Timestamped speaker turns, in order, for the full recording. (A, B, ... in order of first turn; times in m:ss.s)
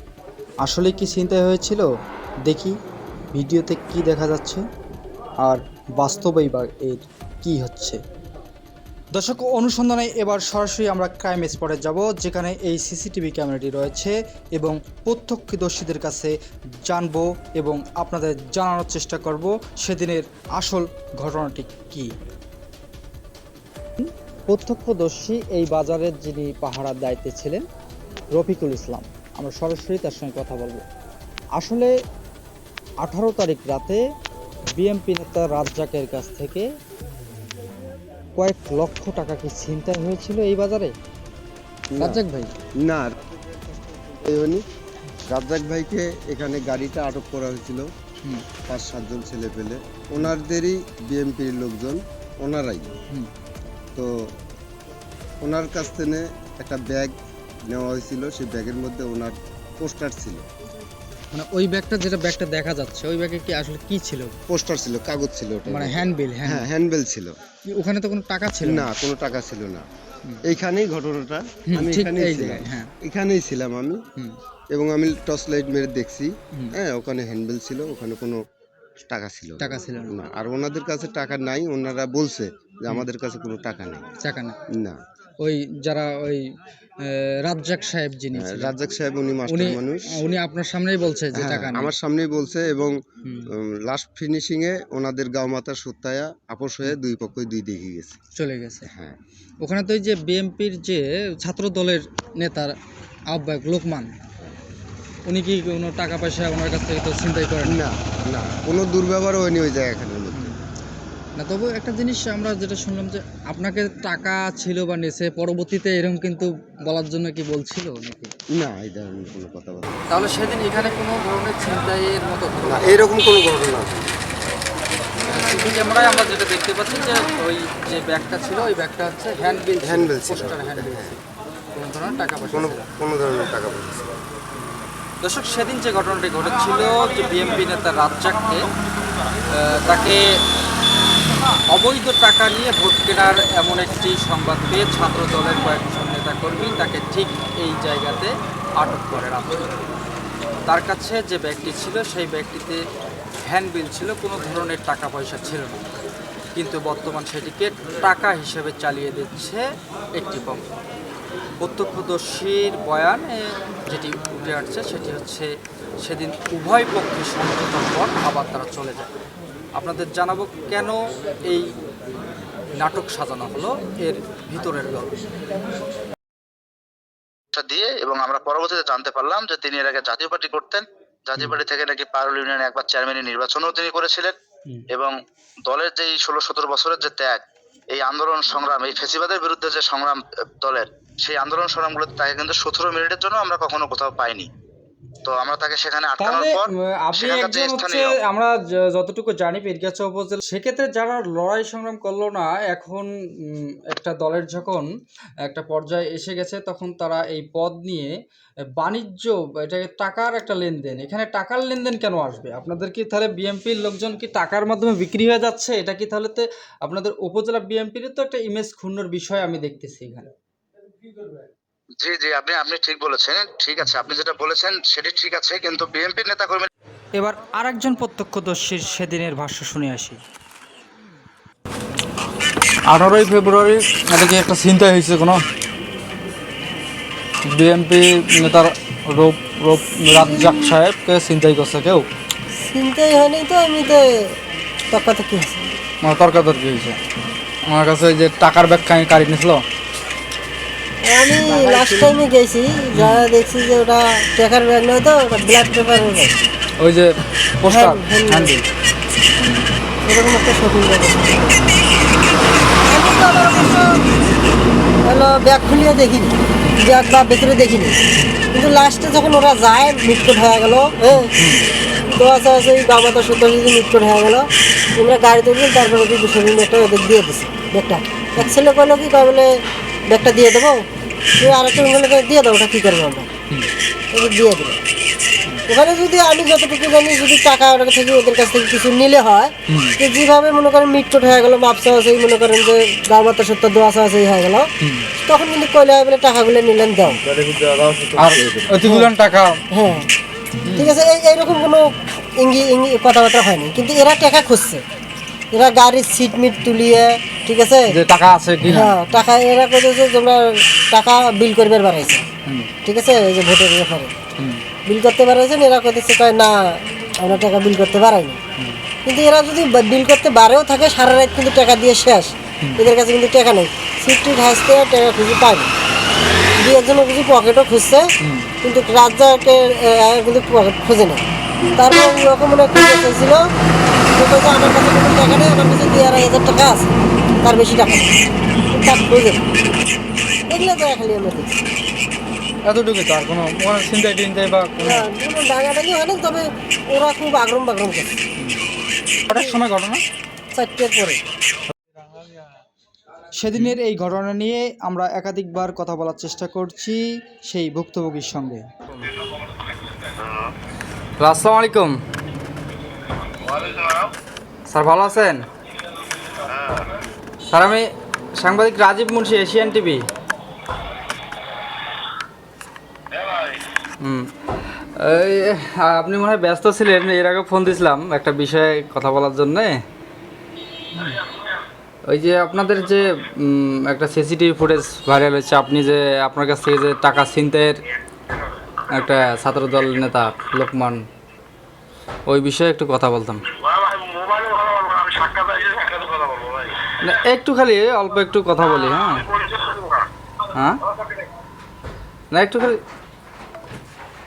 0:00.6-0:01.9 A
0:02.4-0:02.8 A
0:03.3-0:04.6 A
0:05.4-0:08.0 A
0:09.1-0:16.3 A
0:16.8-0:22.1 A
0:24.0-0:27.6 A
0:28.3-0:30.8 A
0:31.5-0:31.9 A
0:33.0-0:34.0 A
0:34.7-0:36.7 A
0:38.4-0:40.9 A
0:41.9-0:42.2 B
0:42.0-0:42.5 A
0:42.8-0:44.6 B
0:45.3-0:47.9 B
0:48.7-0:52.9 B
0:55.4-0:57.2 B
0:57.7-1:00.5 B
1:01.3-1:04.4 A
1:04.5-1:07.4 B
1:05.7-1:06.6 A
1:07.7-1:08.9 A
1:08.6-1:09.9 B
1:10.4-1:14.0 B
1:11.7-1:12.9 A
1:14.7-1:18.4 B
1:19.1-1:24.1 B
1:19.6-1:20.1 A
1:24.2-1:24.6 A
1:24.7-1:25.0 B
1:25.4-1:28.7 A
1:28.3-1:30.2 B
1:29.5-1:31.9 A
1:31.3-1:33.0 B
1:33.2-1:33.5 A
1:33.5-1:38.2 B
1:38.4-1:38.9 A
1:38.9-1:39.2 B
1:39.6-1:42.7 A
1:43.3-1:44.1 A
1:45.2-1:47.8 A
1:47.6-1:50.5 B
1:51.4-1:58.3 A
1:58.5-2:00.0 B
2:00.1-2:03.1 A
2:02.7-2:04.2 B
2:05.3-2:11.2 A
2:09.8-2:11.1 B
2:11.7-2:12.9 A
2:12.5-2:14.0 B
2:15.2-2:18.7 A
2:19.5-2:20.3 A
2:21.7-2:29.8 A
2:30.7-2:32.8 A
2:33.4-2:35.8 A
2:36.5-2:40.7 A
2:41.6-2:49.1 A
2:49.7-2:51.7 A
2:52.8-2:55.2 A
2:57.5-3:04.3 C
3:05.7-3:07.4 C
3:07.9-3:14.5 C
3:15.2-3:18.2 C
3:16.2-3:24.9 A
3:25.4-3:28.1 A
3:28.7-3:40.3 A
3:42.0-3:46.7 C
3:47.2-3:50.2 A
3:52.9-3:55.4 A
3:57.4-4:02.0 A
4:02.6-4:04.4 D
4:04.9-4:05.6 D
4:06.0-4:07.0 A
4:07.6-4:09.6 A
4:11.0-4:16.5 D
4:11.4-4:12.2 A
4:12.9-4:13.3 A
4:16.8-4:18.6 A
4:17.7-4:18.6 D
4:20.0-4:21.6 D
4:22.9-4:24.0 D
4:25.0-4:31.3 D
4:28.2-4:28.4 A
4:31.1-4:31.7 A
4:32.1-4:39.5 D
4:40.1-4:40.8 D
4:41.4-4:43.3 D
4:44.1-4:44.8 D
4:45.7-4:54.7 D
4:49.7-4:50.0 A
4:54.8-4:55.1 A
4:55.2-4:57.2 D
4:57.2-4:58.7 B
4:58.2-4:59.6 A
4:59.7-5:00.1 D
5:00.6-5:01.0 A
5:00.8-5:04.8 D
5:05.5-5:07.9 D
5:07.9-5:09.0 A
5:08.6-5:12.2 D
5:12.5-5:12.7 A
5:12.8-5:14.1 D
5:14.4-5:14.6 A
5:14.9-5:18.4 D
5:19.0-5:25.7 D
5:22.6-5:22.9 A
5:26.6-5:28.1 D
5:28.2-5:28.5 A
5:28.6-5:33.5 D
5:34.1-5:36.9 D
5:37.4-5:39.4 D
5:40.5-5:41.6 D
5:42.6-5:45.1 A
5:44.8-5:48.2 D
5:48.4-5:48.7 A
5:49.3-5:50.0 A
5:50.5-5:51.2 D
5:53.4-5:59.1 A
6:01.2-6:02.0 A
6:04.7-6:05.4 A
6:07.5-6:07.9 A
6:08.4-6:10.0 A
6:14.0-6:14.3 A
6:15.0-6:19.8 A
6:20.9-6:21.2 A
6:22.0-6:27.8 A
6:28.9-6:31.0 A
6:32.3-6:33.4 A
6:33.8-6:36.7 E
6:37.0-6:39.3 A
6:40.5-6:40.8 A
6:42.3-6:42.8 A